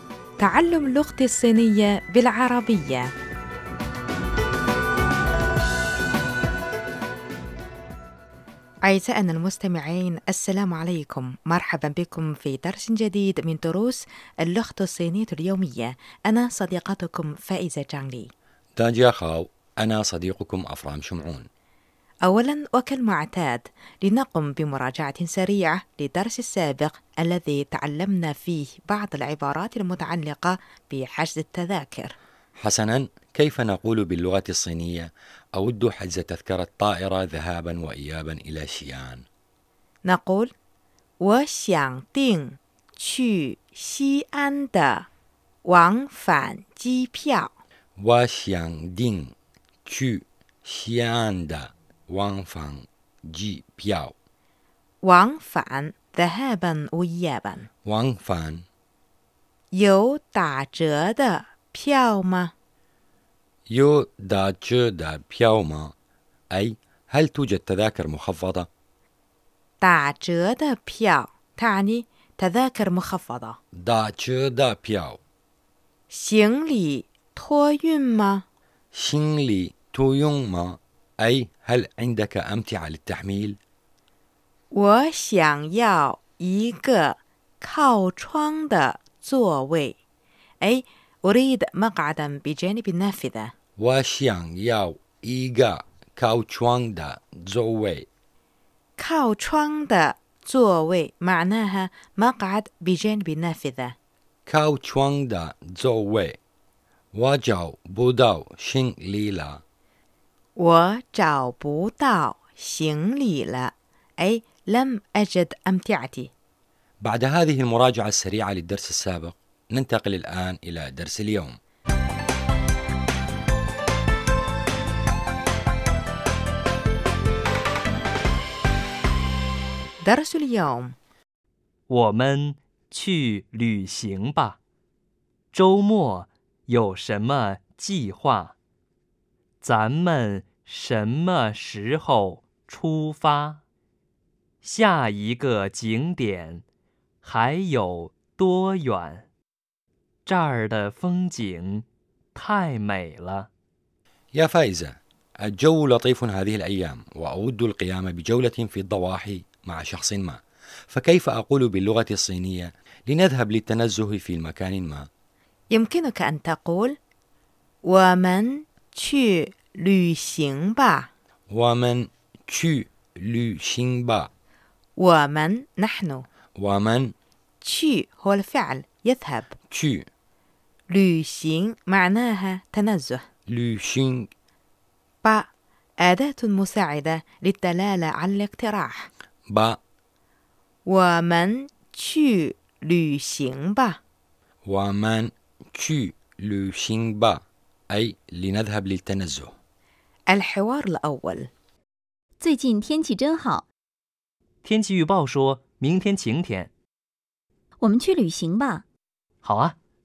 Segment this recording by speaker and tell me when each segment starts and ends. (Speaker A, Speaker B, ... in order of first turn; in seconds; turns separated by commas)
Speaker A: 0.4-3.1, Speaker A: 8.8-18.3, Speaker B: 18.8-21.5, Speaker A: 22.2-32.1, Speaker B: 32.6-39.2, Speaker A: 40.1-40.5, Speaker A: 41.2-45.0, Speaker A: 45.7-47.5, Speaker B: 48.0-49.3, Speaker B: 49.9-54.1, Speaker A: 55.0-57.7, Speaker B: 57.9-58.6, Speaker A: 59.7-62.5, Speaker B: 63.7-65.9, Speaker B: 66.5-68.7, Speaker A: 69.8-73.6, Speaker B: 73.8-75.2, Speaker A: 76.1-78.4, Speaker B: 78.9-83.6, Speaker A: 84.7-90.0, Speaker A: 90.6-93.5, Speaker B: 93.8-98.1, Speaker A: 99.0-103.9, Speaker B: 104.5-106.4, Speaker B: 107.1-109.6, Speaker A: 110.6-113.7, Speaker A: 114.2-116.3, Speaker B: 117.0-121.6, Speaker A: 130.0-130.9, Speaker C: 131.9-134.6, Speaker C: 135.5-138.6, Speaker C: 139.6-143.6, Speaker C: 144.6-146.6, Speaker C: 147.2-149.3, Speaker C: 150.3-153.5, Speaker B: 154.3-165.1, Speaker A: 165.7-166.9, Speaker A: 167.9-171.1, Speaker B: 171.5-174.3, Speaker A: 175.0-176.2, Speaker B: 176.6-177.1, Speaker A: 177.6-179.5, Speaker B: 179.7-180.1, Speaker A: 180.9-183.2, Speaker B: 183.5-184.3, Speaker A: 186.0-189.1, Speaker B: 189.5-189.8, Speaker A: 190.9-194.0, Speaker B: 194.6-199.5, Speaker A: 200.3-201.5, Speaker D: 202.4-203.7, Speaker C: 204.6-206.7, Speaker D: 207.8-208.8, Speaker C: 209.4-209.8